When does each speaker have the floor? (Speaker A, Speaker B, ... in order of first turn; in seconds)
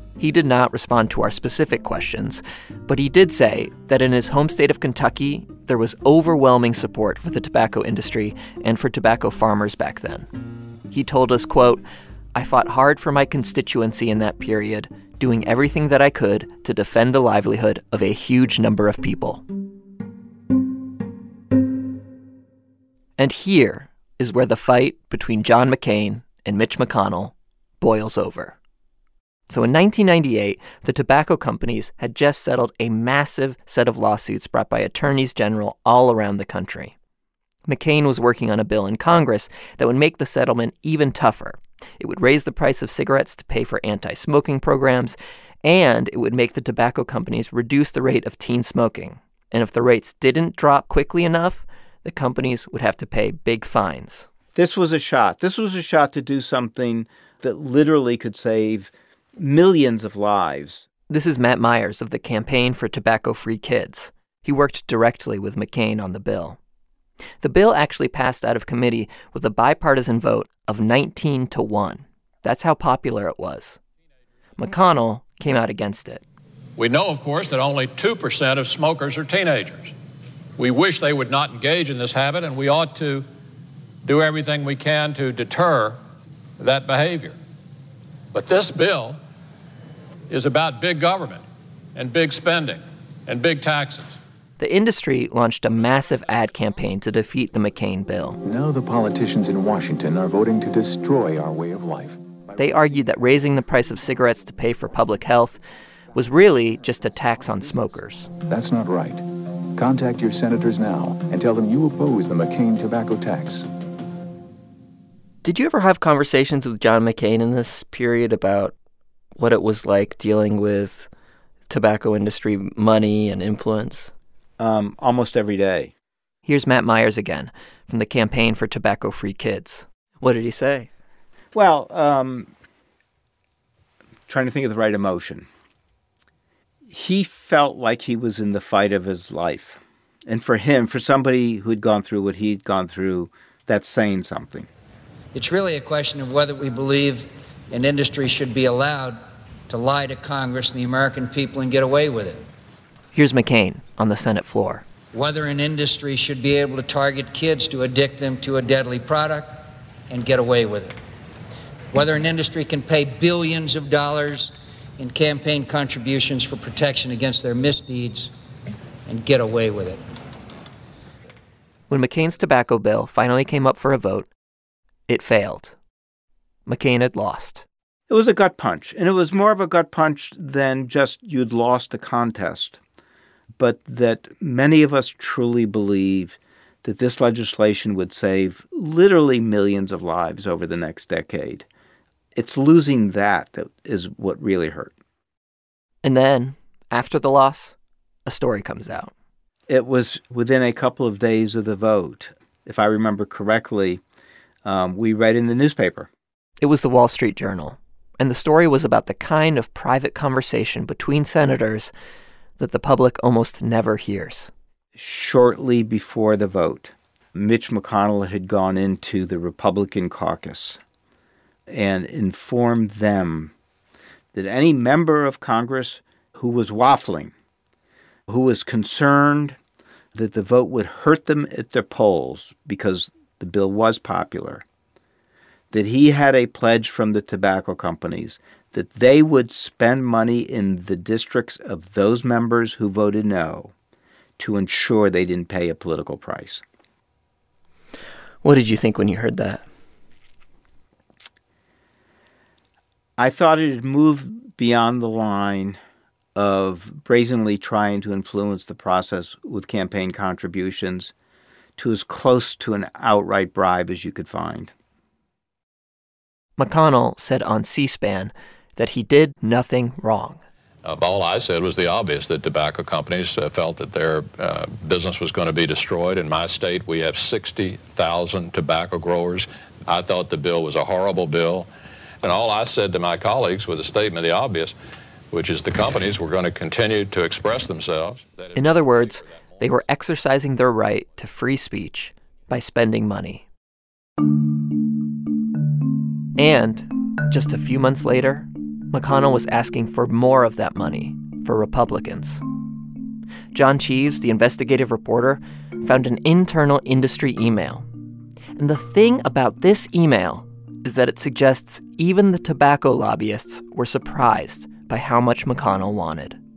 Speaker A: 0.2-10.3, 10.9-11.8, 12.3-19.4, 23.2-28.6, 29.5-37.0, 37.7-54.3, 61.1-66.6, 67.4-73.8, 74.6-76.2, 94.6-98.4, 102.6-108.3, 115.4-118.8, 119.3-121.1, 121.7-124.1, 126.5-130.9, 153.1-154.8, 171.9-174.3, 175.1-175.8, 176.7-177.7, 196.0-199.1, 206.6-211.9, 212.6-214.5, 248.4-249.7, 266.6-270.4, 288.5-293.5, 296.4-302.4, 303.5-307.9, 308.6-316.4
Speaker B: 54.5-60.9, 124.6-125.9, 131.5-132.5, 134.3-135.5, 136.9-144.7, 178.1-182.8, 183.6-191.7, 192.3-194.9, 199.7-204.0, 204.7-206.1, 214.9-220.8, 221.7-223.5, 224.3-227.3, 228.3-229.6, 230.1-234.6, 235.7-243.7, 244.4-246.6, 253.2-255.8, 256.4-261.1, 261.8-264.7
Speaker C: 76.8-79.9, 80.6-83.3, 84.0-86.0, 86.6-87.4, 88.3-89.2, 90.3-91.4, 92.0-94.2, 270.8-281.7, 282.2-284.7, 285.3-289.7
Speaker D: 98.4-102.2, 108.4-113.7
Speaker E: 145.3-152.4, 155.1-160.9, 161.9-168.3, 169.1-170.0